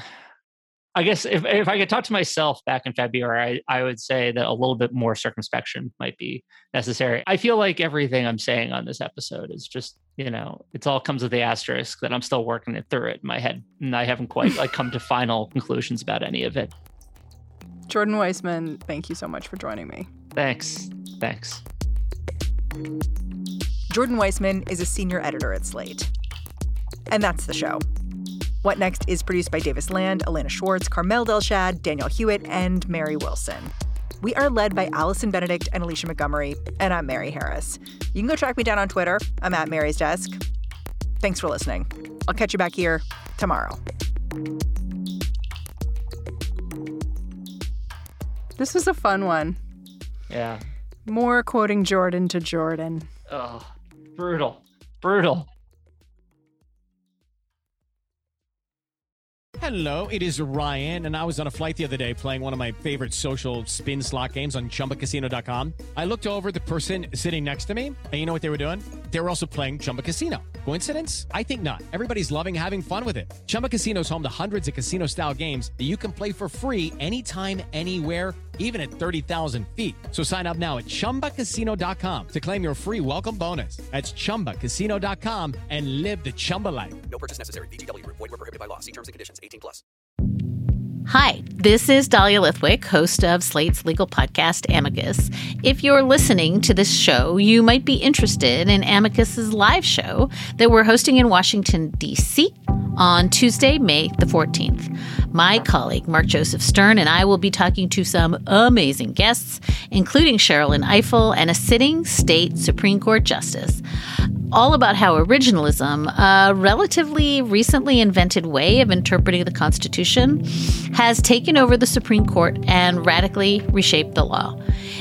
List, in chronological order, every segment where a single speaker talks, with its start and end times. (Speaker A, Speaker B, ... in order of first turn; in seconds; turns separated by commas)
Speaker A: 0.9-16.7, Speaker B: 17.9-20.1, Speaker A: 20.3-21.6, Speaker B: 23.9-26.1, Speaker B: 27.1-27.8, Speaker B: 28.6-40.4, Speaker B: 41.2-43.8, Speaker B: 48.6-49.6, Speaker A: 50.3-50.6, Speaker B: 51.0-53.1, Speaker A: 53.3-55.5, Speaker C: 59.6-87.0, Speaker D: 87.1-89.8, Speaker E: 91.1-113.8, Speaker E: 114.5-124.6